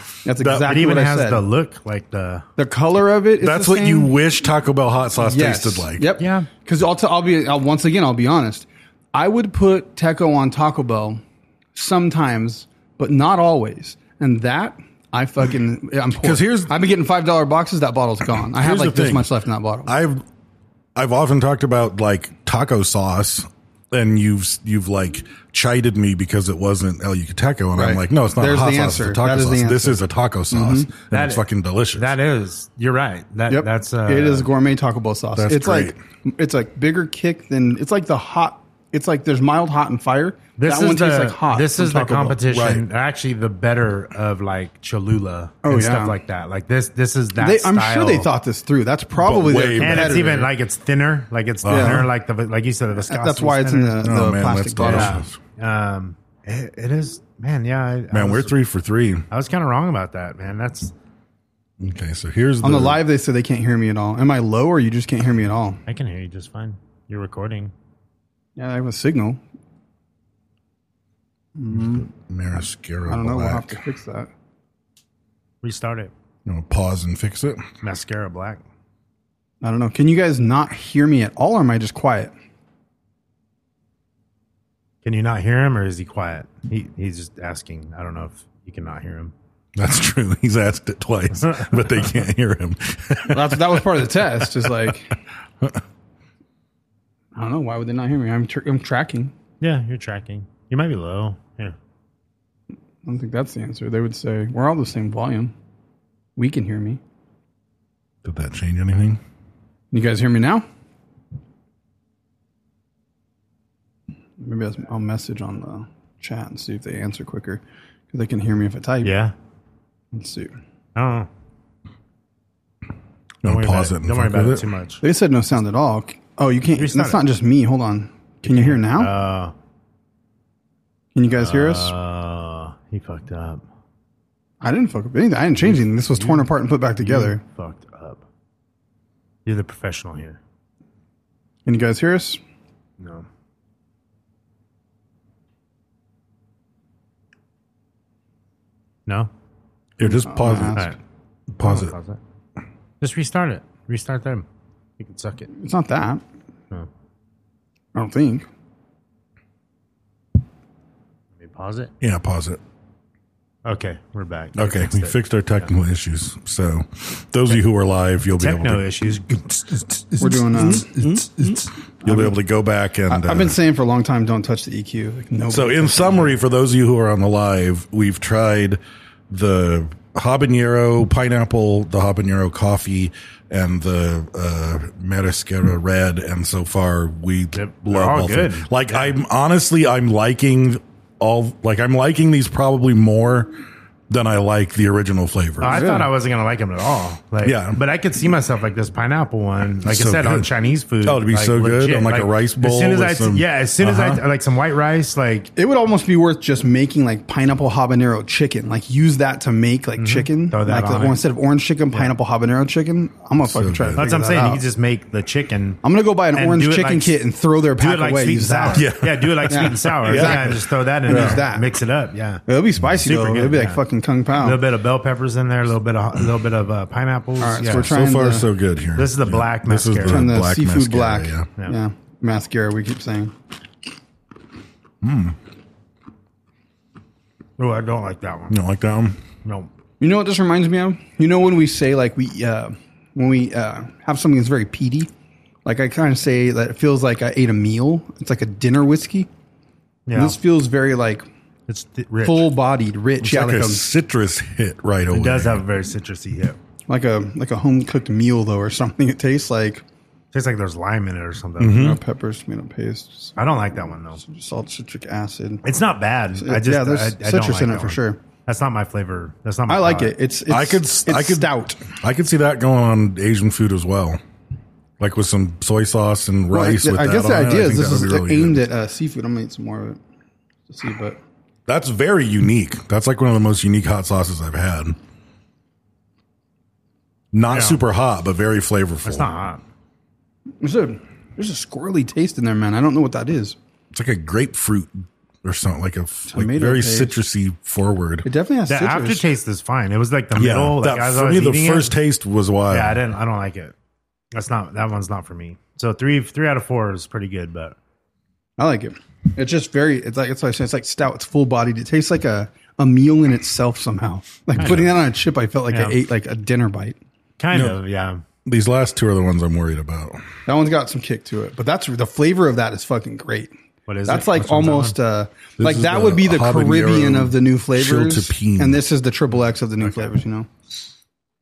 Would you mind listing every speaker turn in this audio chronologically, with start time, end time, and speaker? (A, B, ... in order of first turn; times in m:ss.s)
0:00.2-0:01.4 A
0:00.4-0:00.8 B
0:00.6-0:02.5 C
0:02.6-0:04.1 A
0:03.4-0:06.1 B
0:05.2-0:11.2 A
0:06.2-0:06.5 C
0:11.8-0:19.9 A
0:16.2-0:16.7 B
0:18.6-0:19.3 B
0:19.9-0:20.2 B
0:21.0-0:32.1 B
0:27.8-0:30.9 A
0:31.1-0:34.5 C
0:33.5-0:42.4 A
0:35.4-0:36.0 B
0:40.6-0:48.3 C
0:42.5-0:42.8 B
0:45.6-0:46.2 A
0:47.4-0:50.5 A
0:49.2-0:50.3 B
0:49.8-0:54.0 C
0:51.6-0:52.0 B
0:51.7-0:52.1 A
0:53.0-0:55.1 A
0:54.0-0:55.4 B
0:54.8-0:58.6 C
0:58.1-0:59.2 B
0:59.3-1:00.9 C
1:01.8-1:03.0 B
1:02.6-1:05.8 A
1:05.9-1:07.7 C
1:08.6-1:09.4 A
1:11.6-1:12.1 A
1:11.7-1:13.8 B
1:13.1-1:14.3 A
1:15.6-1:16.1 C
1:16.5-1:17.6 B
1:17.8-1:18.6 C
1:19.6-1:22.3 A
1:25.0-1:29.3 C
1:29.8-1:34.9 B
1:33.3-1:35.2 A
1:37.4-1:39.3 A
1:39.6-1:41.8 C
1:43.0-1:45.5 A
1:46.4-1:47.0 A
1:48.2-1:49.2 B
1:49.9-1:50.6 A
1:54.4-1:59.1 A
1:59.0-1:59.3 C
2:00.1-2:00.5 A
2:01.0-2:01.3 C
2:03.4-2:04.7 B
2:03.4-2:05.0 C
2:05.0-2:09.1 A
2:06.8-2:07.2 C
2:08.5-2:09.5 C
2:11.2-2:11.9 A
2:11.4-2:13.6 C
2:14.6-2:17.4 A
2:15.6-2:18.2 C
2:19.4-2:20.4 C
2:21.7-2:22.4 A
2:23.0-2:23.2 C
2:30.0-2:30.8 B
2:30.0-2:30.9 A
2:31.5-2:32.0 B
2:31.6-2:32.2 C
2:33.0-2:34.5 C
2:35.0-2:35.5 C
2:35.5-2:36.2 A
2:38.0-2:38.5 A
2:41.4-2:41.9 C
2:42.0-2:42.6 B
2:43.6-2:45.7 C
2:44.6-2:48.8 B
2:48.4-2:50.3 C
2:50.2-2:51.2 A
2:50.4-2:53.6 B
2:52.0-2:52.4 A
2:53.1-2:56.4 A
2:55.5-3:13.5 B
3:07.5-3:09.2 C
3:14.1-3:15.9 B
3:15.6-3:25.5 C
3:15.6-3:16.1 A
3:17.4-3:17.8 B
3:19.8-3:20.5 B
3:21.0-3:24.2 B
3:25.6-3:34.6 A
3:30.0-3:31.2 C
3:33.4-3:34.2 B
3:34.0-3:35.8 C
3:35.8-3:38.9 A
3:36.4-3:37.2 C
3:37.8-3:42.4 C
3:38.7-3:41.4 B
3:39.5-3:41.7 A
3:42.5-3:44.6 A
3:43.0-3:43.4 B
3:43.1-3:43.8 C
3:44.3-3:47.9 C
3:47.4-3:48.5 A
3:47.7-3:51.5 B
3:49.0-3:50.3 C
3:50.0-3:53.3 A
3:55.0-3:55.4 B
3:57.6-3:58.6 C
3:58.5-3:59.2 B
3:59.4-3:59.7 C
4:00.0-4:05.1 A
4:05.6-4:09.3 A
4:10.1-4:10.4 C
4:10.1-4:11.2 A
4:11.7-4:12.5 C
4:12.2-4:13.9 A
4:13.2-4:15.6 B
4:15.1-4:16.6 C
4:16.9-4:19.8 A
4:20.3-4:21.8 C
4:21.6-4:22.0 B
4:21.7-4:23.6 A
4:23.4-4:24.2 C
4:24.2-4:25.6 A
4:25.6-4:30.2 C
4:26.4-4:28.2 A
4:29.7-4:31.9 A
4:30.5-4:34.2 B
4:35.0-4:38.6 B
4:36.5-4:40.0 A
4:40.7-4:41.2 A
4:41.7-4:45.0 B
4:47.3-4:49.3 B
4:47.5-4:47.8 C
4:49.0-4:49.6 C
4:50.6-4:53.6 A
4:53.9-4:58.3 B
4:56.3-4:57.2 A
4:58.2-4:59.3 A
4:58.7-5:02.0 C
5:00.4-5:03.0 B
5:02.7-5:03.7 C
5:04.3-5:07.8 C
5:08.6-5:17.0 A
5:14.6-5:14.9 C
5:15.7-5:16.0 C
5:17.4-5:18.2 C
5:17.5-5:17.8 B
5:18.4-5:20.2 B
5:20.5-5:23.5 A
5:23.9-5:25.0 C
5:24.1-5:30.5 A
5:25.6-5:28.8 B